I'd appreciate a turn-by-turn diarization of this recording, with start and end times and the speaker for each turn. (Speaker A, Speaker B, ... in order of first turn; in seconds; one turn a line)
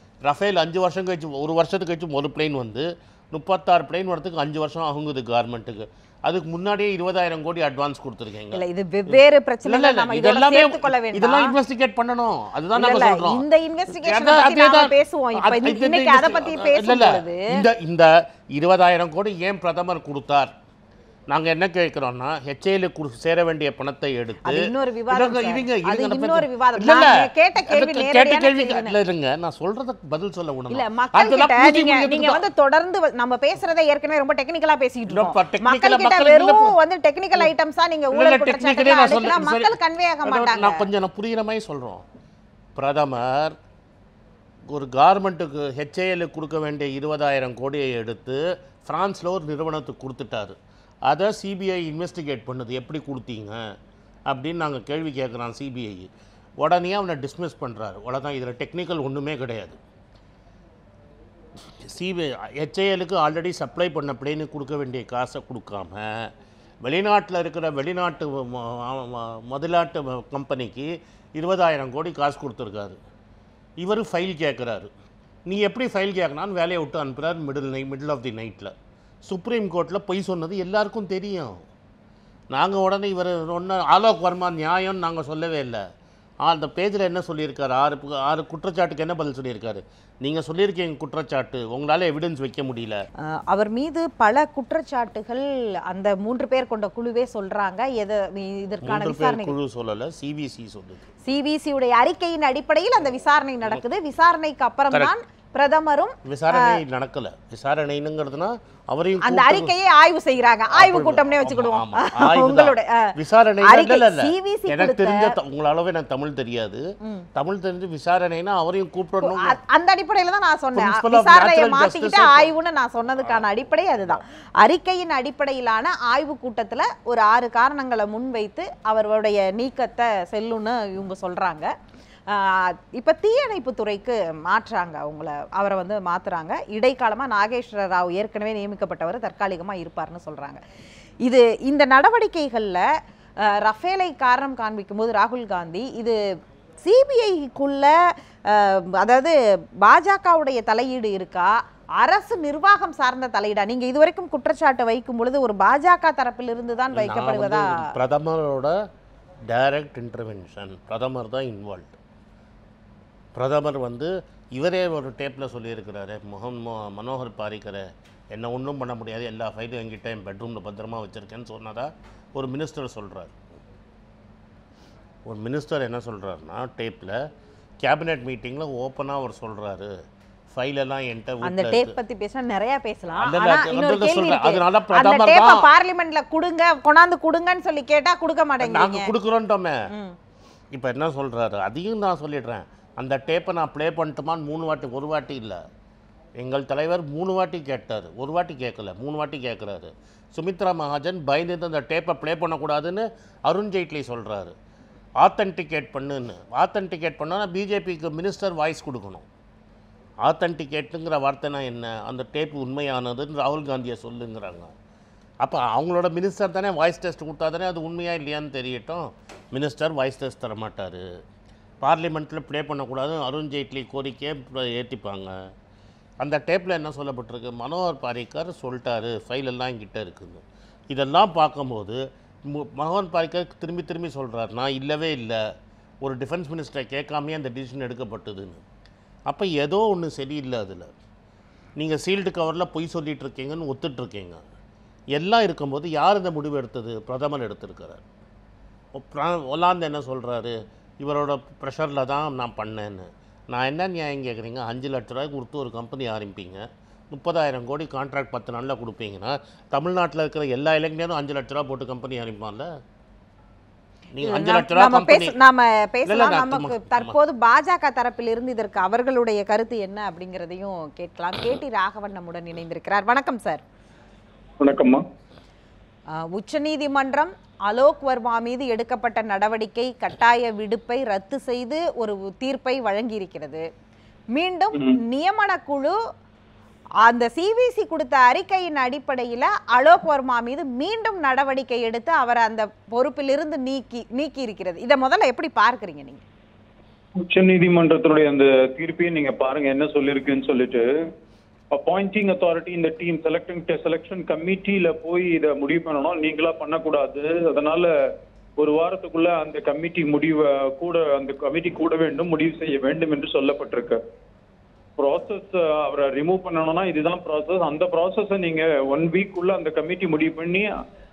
Speaker A: 0.2-20.5
Speaker B: 8.5-11.5
Speaker B: 12.8-17.6
Speaker A: 21.3-32.4
Speaker B: 24.4-28.9
Speaker B: 30.7-40.8
Speaker A: 35.1-36.7
Speaker A: 38.1-39.7
Speaker A: 40.2-42.0
Speaker A: 42.8-43.5
Speaker A: 44.7-50.5
Speaker A: 51.1-53.7
Speaker A: 54.3-59.8
Speaker A: 61.8-73.0
Speaker A: 73.8-74.9
Speaker A: 75.5-78.7
Speaker A: 79.2-81.6
Speaker A: 82.5-85.8
Speaker A: 86.4-93.0
Speaker B: 93.2-99.5
Speaker A: 98.8-101.0
Speaker B: 101.2-106.8
Speaker A: 106.2-109.7
Speaker B: 109.2-115.3
Speaker A: 110.7-116.8
Speaker A: 117.3-119.6
Speaker B: 119.2-131.7
Speaker A: 120.7-122.5
Speaker B: 132.3-140.6
Speaker B: 141.2-142.8
Speaker B: 143.4-146.2
Speaker B: 146.8-147.9
Speaker B: 148.4-157.9
Speaker A: 156.9-158.8
Speaker A: 159.5-162.0
Speaker A: 163.3-173.4
Speaker A: 175.3-177.2
Speaker A: 177.8-179.9
Speaker A: 180.5-181.9
Speaker B: 181.4-189.1
Speaker A: 183.2-185.7
Speaker A: 188.6-189.9
Speaker B: 189.9-190.2
Speaker A: 190.7-195.6
Speaker A: 196.4-204.5
Speaker A: 205.2-209.3
Speaker A: 210.2-214.7
Speaker A: 215.4-221.0
Speaker A: 221.8-225.3
Speaker A: 226.2-235.4
Speaker A: 236.0-238.6
Speaker A: 239.3-240.9
Speaker A: 241.8-244.4
Speaker A: 245.1-248.0
Speaker A: 248.9-262.7
Speaker A: 264.1-265.3
Speaker B: 264.2-273.6
Speaker A: 266.1-267.1
Speaker C: 274.6-275.0
Speaker B: 276.1-283.6
Speaker B: 284.3-286.0
Speaker C: 284.7-285.0
Speaker B: 287.0-296.2
Speaker C: 297.2-300.9
Speaker C: 301.7-307.9
Speaker C: 308.6-314.0
Speaker C: 315.0-320.7